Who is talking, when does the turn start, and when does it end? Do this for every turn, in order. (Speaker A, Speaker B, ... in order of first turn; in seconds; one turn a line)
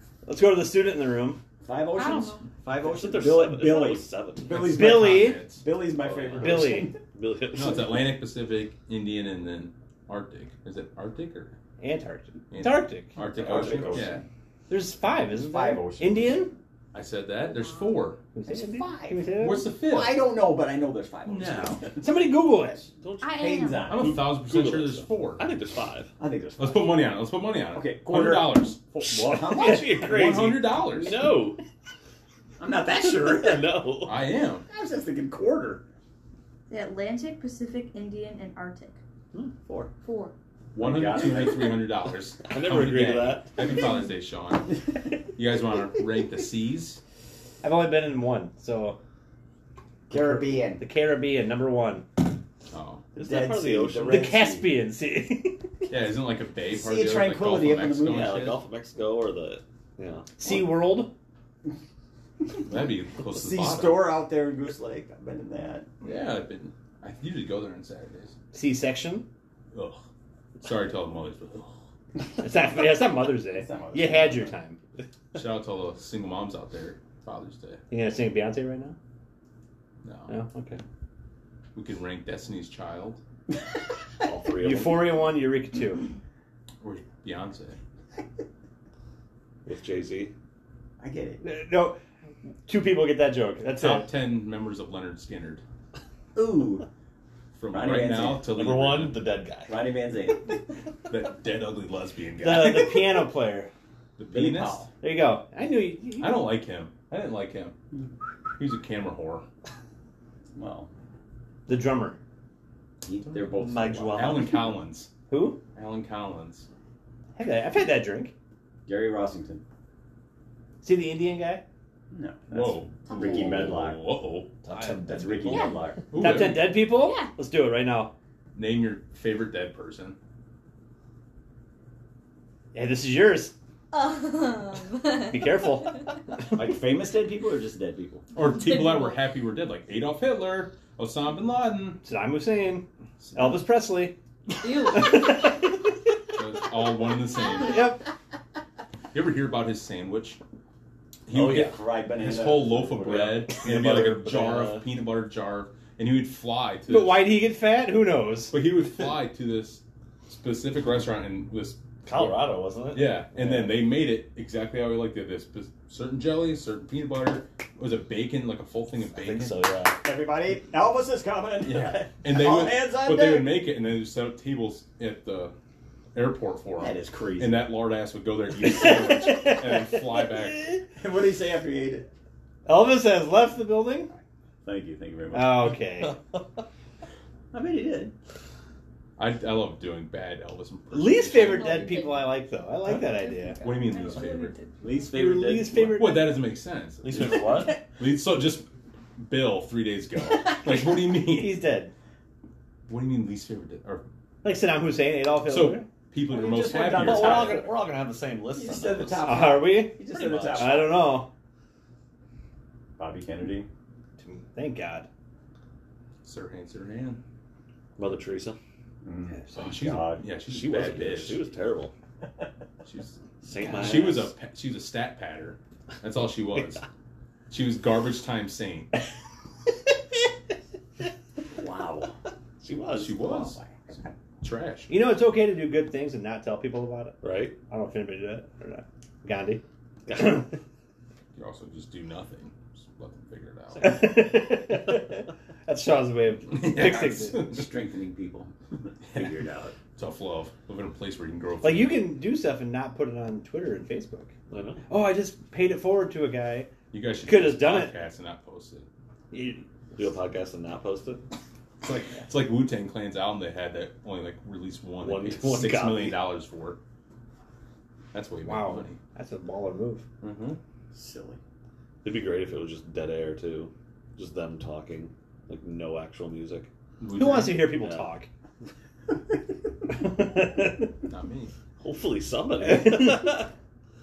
Speaker A: 0.2-1.4
Speaker B: 1.6-7.0
Speaker C: 1.9-2.5
Speaker D: 2.8-4.6
Speaker E: 4.5-5.7
Speaker A: 4.6-5.4
Speaker D: 6.0-8.1
Speaker A: 6.4-6.9
Speaker E: 7.5-11.6
Speaker A: 11.8-13.2
Speaker E: 12.5-14.2
Speaker B: 13.2-14.2
Speaker D: 13.7-14.0
Speaker A: 14.7-16.5
Speaker B: 15.3-16.5
Speaker E: 16.9-18.2
Speaker C: 17.6-17.8
Speaker A: 18.3-19.7
Speaker B: 18.5-22.1
Speaker E: 19.4-20.3
Speaker E: 21.3-21.9
Speaker A: 22.0-22.9
Speaker B: 22.8-24.2
Speaker D: 23.0-26.1
Speaker C: 23.2-23.9
Speaker E: 23.9-25.5
Speaker B: 26.2-27.0
Speaker E: 26.6-28.8
Speaker B: 27.7-30.1
Speaker D: 29.1-31.6
Speaker E: 30.0-31.2
Speaker B: 32.6-33.7
Speaker D: 33.0-34.2
Speaker E: 34.0-34.7
Speaker B: 34.7-35.8
Speaker C: 36.7-39.0
Speaker C: 40.0-40.3
Speaker B: 40.8-41.8
Speaker E: 40.8-44.8
Speaker D: 42.5-43.5
Speaker E: 45.4-47.0
Speaker A: 47.6-49.0
Speaker B: 50.1-50.8
Speaker A: 50.1-52.2
Speaker E: 52.7-53.0
Speaker D: 53.1-54.4
Speaker B: 53.2-54.8
Speaker A: 54.1-55.7
Speaker E: 55.9-58.6
Speaker B: 56.7-58.3
Speaker D: 58.0-60.3
Speaker A: 60.4-61.1
Speaker E: 62.6-64.1
Speaker B: 63.3-65.9
Speaker E: 66.0-68.3
Speaker A: 68.5-69.3
Speaker E: 69.7-70.0
Speaker E: 70.6-71.7
Speaker A: 72.4-74.8
Speaker B: 73.5-74.5
Speaker E: 75.3-77.8
Speaker A: 77.9-79.0
Speaker E: 80.0-80.3
Speaker A: 80.3-80.8
Speaker E: 81.8-83.2
Speaker D: 84.2-85.3
Speaker A: 84.6-86.0
Speaker E: 86.8-87.8
Speaker D: 89.7-90.3
Speaker B: 91.0-91.4
Speaker A: 91.4-92.0
Speaker A: 92.7-94.1
Speaker E: 93.8-95.6
Speaker B: 96.3-96.9
Speaker E: 97.5-99.3
Speaker B: 97.7-98.5
Speaker D: 98.5-99.8
Speaker B: 99.7-100.6
Speaker E: 101.1-103.2
Speaker A: 102.4-103.7
Speaker E: 104.2-104.9
Speaker B: 104.3-104.9
Speaker A: 105.0-106.5
Speaker E: 106.2-107.8
Speaker E: 108.6-109.5
Speaker B: 110.5-110.9
Speaker A: 111.7-112.2
Speaker B: 113.0-114.4
Speaker D: 113.6-114.7
Speaker E: 114.1-115.1
Speaker A: 115.3-115.6
Speaker E: 115.8-116.7
Speaker A: 117.4-118.3
Speaker B: 118.9-119.6
Speaker A: 120.8-121.6
Speaker B: 122.1-124.1
Speaker E: 122.5-124.5
Speaker C: 123.1-123.6
Speaker D: 124.6-125.9
Speaker A: 124.7-125.0
Speaker B: 125.0-126.1
Speaker C: 125.5-125.8
Speaker E: 126.1-126.9
Speaker A: 126.1-128.1
Speaker C: 126.8-127.3
Speaker E: 128.6-130.2
Speaker A: 132.7-133.6
Speaker C: 133.9-135.5
Speaker A: 135.2-136.1
Speaker B: 136.5-138.3
Speaker E: 138.3-142.0
Speaker C: 138.6-139.2
Speaker A: 142.0-144.2
Speaker E: 143.2-143.7
Speaker C: 144.6-145.5
Speaker A: 144.7-145.7
Speaker E: 146.3-147.8
Speaker A: 147.6-148.0
Speaker E: 149.1-150.4
Speaker E: 151.3-157.3
Speaker B: 151.3-153.4
Speaker D: 153.1-154.9
Speaker A: 156.9-158.6
Speaker E: 158.5-162.4
Speaker D: 162.0-163.2
Speaker E: 162.9-169.6
Speaker D: 169.1-170.0
Speaker B: 170.0-173.6
Speaker E: 171.6-175.5
Speaker E: 176.1-180.8
Speaker B: 176.8-177.7
Speaker A: 178.6-180.4
Speaker B: 181.0-182.1
Speaker A: 182.7-184.1
Speaker B: 184.6-185.7
Speaker A: 185.3-186.2
Speaker B: 187.5-188.1
Speaker E: 189.2-191.8
Speaker A: 190.9-193.6
Speaker C: 191.3-192.4
Speaker C: 192.9-195.1
Speaker E: 193.6-194.6
Speaker B: 194.8-196.0
Speaker A: 195.1-196.4
Speaker E: 195.8-198.7
Speaker D: 197.0-197.8
Speaker B: 197.2-197.8
Speaker E: 199.2-201.6
Speaker A: 201.2-201.9
Speaker E: 202.9-204.0
Speaker A: 204.4-205.9
Speaker E: 205.5-207.7
Speaker B: 206.3-207.8
Speaker D: 206.8-209.5
Speaker B: 208.5-211.1
Speaker A: 209.2-211.3
Speaker D: 210.1-211.0
Speaker B: 213.0-213.7
Speaker A: 214.2-215.1
Speaker E: 216.2-217.2
Speaker D: 218.0-218.6
Speaker B: 219.0-220.2
Speaker E: 219.6-221.5
Speaker D: 220.5-221.9
Speaker E: 222.8-223.2
Speaker D: 223.4-224.3
Speaker E: 223.7-226.8
Speaker E: 227.5-228.9
Speaker B: 231.6-232.1
Speaker D: 232.6-233.3
Speaker E: 233.0-233.6
Speaker B: 233.0-234.1
Speaker E: 234.4-234.9
Speaker A: 234.9-240.5
Speaker D: 237.2-237.6
Speaker D: 240.1-240.4
Speaker E: 241.4-244.1
Speaker A: 243.8-247.5
Speaker E: 246.5-247.7
Speaker B: 246.7-249.8
Speaker E: 249.1-249.3
Speaker E: 250.0-252.1
Speaker A: 251.6-254.3
Speaker D: 254.5-254.8
Speaker A: 254.9-256.7
Speaker E: 256.9-258.9
Speaker A: 257.2-257.9
Speaker A: 259.3-259.6
Speaker D: 260.0-261.2
Speaker E: 261.8-266.8
Speaker D: 265.0-266.2
Speaker E: 268.1-269.0
Speaker A: 268.4-270.1
Speaker E: 270.2-270.6
Speaker B: 270.9-271.4
Speaker D: 272.0-276.7
Speaker E: 277.0-277.8
Speaker A: 277.1-278.3
Speaker D: 277.8-278.1
Speaker A: 279.9-280.9
Speaker E: 281.1-281.5
Speaker D: 281.8-283.5
Speaker A: 282.6-283.5